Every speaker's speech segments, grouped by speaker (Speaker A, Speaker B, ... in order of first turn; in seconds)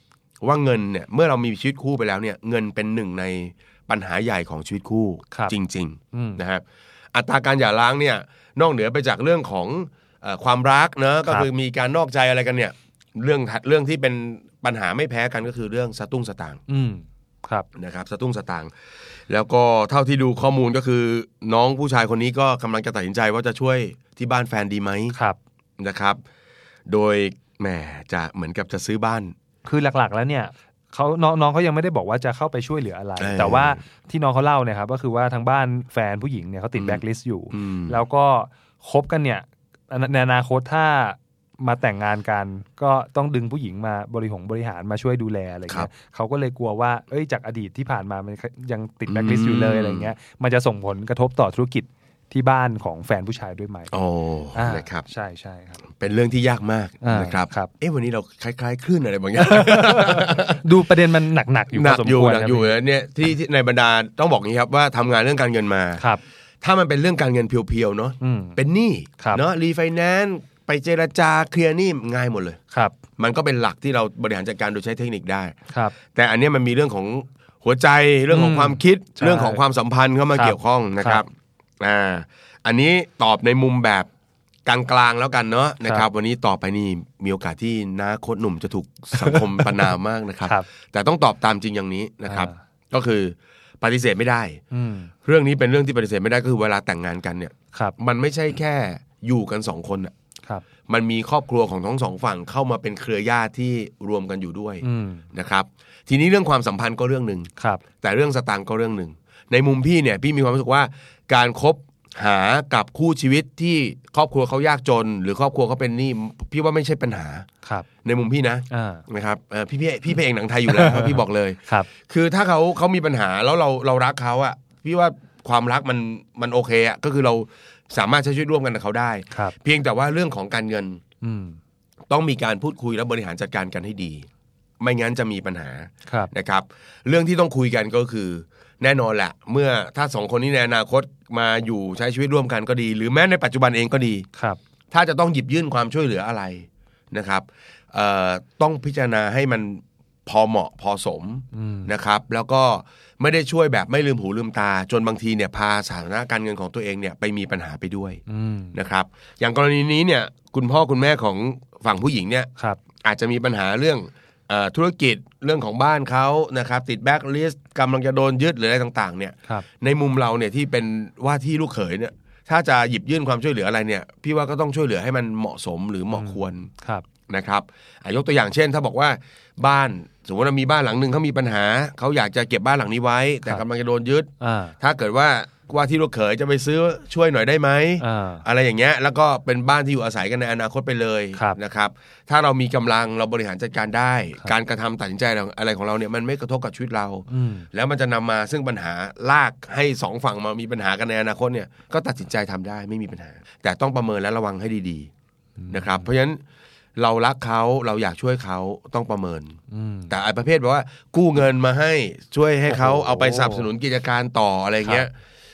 Speaker A: 0.4-6.6, 7.1-16.6, 17.7-18.7, 19.3-25.1, 25.8-26.2, 26.9-29.3, 33.2-33.8, 36.8-38.0, 49.1-50.1, 53.9-55.1, 56.0-60.6, 61.7-66.0, 66.6-72.6, 73.2-75.5, 76.1-84.1, 84.7-94.6, 95.2-100.1, 100.9-107.5, 108.0-117.5, 118.0-131.0, 132.1-134.3, 134.8-144.2, 144.9-158.2, 158.7-162.5, 163.0-176.7, 177.3-205.1, 205.7-206.4, 207.0-209.6, 210.1-215.1
Speaker B: 5.3-5.5, 6.1-6.4, 16.7-17.7, 25.1-25.4, 29.6-53.9, 54.5-55.8, 57.0-57.7, 59.4-62.8, 68.2-68.6, 69.2-69.4, 72.7-73.0, 75.7-75.9, 78.3-79.6, 80.3-81.2, 89.1-89.9, 92.2-92.6, 94.7-95.1, 104.8-105.2, 107.6-107.8, 118.7-119.0, 120.7-121.9, 131.2-131.6, 136.1-136.3, 144.3-144.6, 151.5-151.9, 158.3-158.8, 162.6-162.8, 176.1-177.1, 184.4-184.8, 188.0-188.4, 197.3-197.7, 205.6-206.1, 209.7-210.1, 212.7-213.7